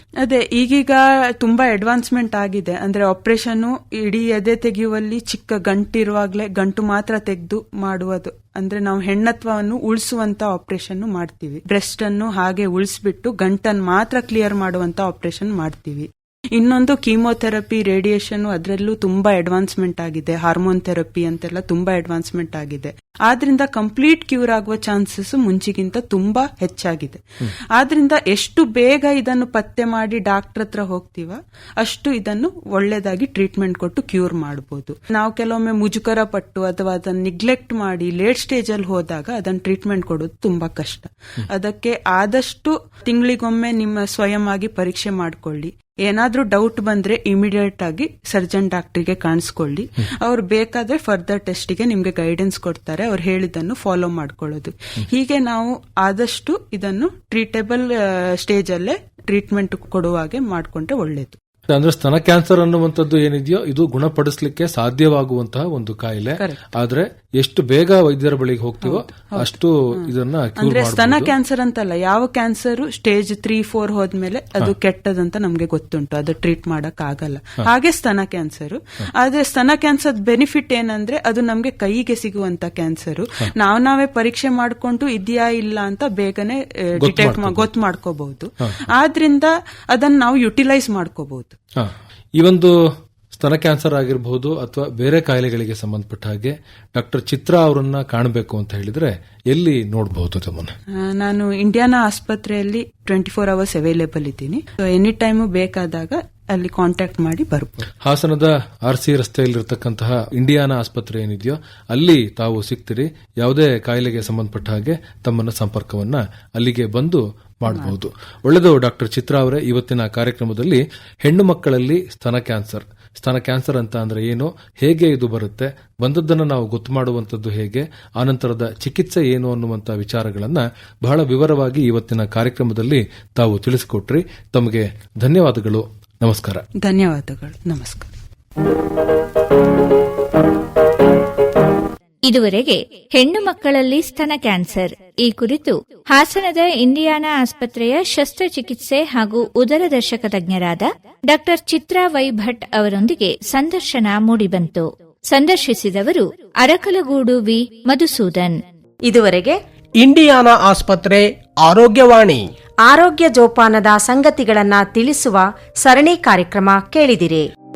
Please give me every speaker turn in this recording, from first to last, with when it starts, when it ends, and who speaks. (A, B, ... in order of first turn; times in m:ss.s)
0:00.2-1:01.4 A
1:01.7-1:11.3 B
1:08.8-1:31.6 A
1:27.0-1:27.7 B
1:31.8-1:32.8 B
1:33.3-1:40.7 B
1:40.9-1:47.9 A
1:48.0-2:16.6 B
2:16.8-2:18.2 A
2:22.3-2:38.6 C
2:39.1-2:39.6 D
2:40.0-2:42.4 E
2:42.8-2:47.5 D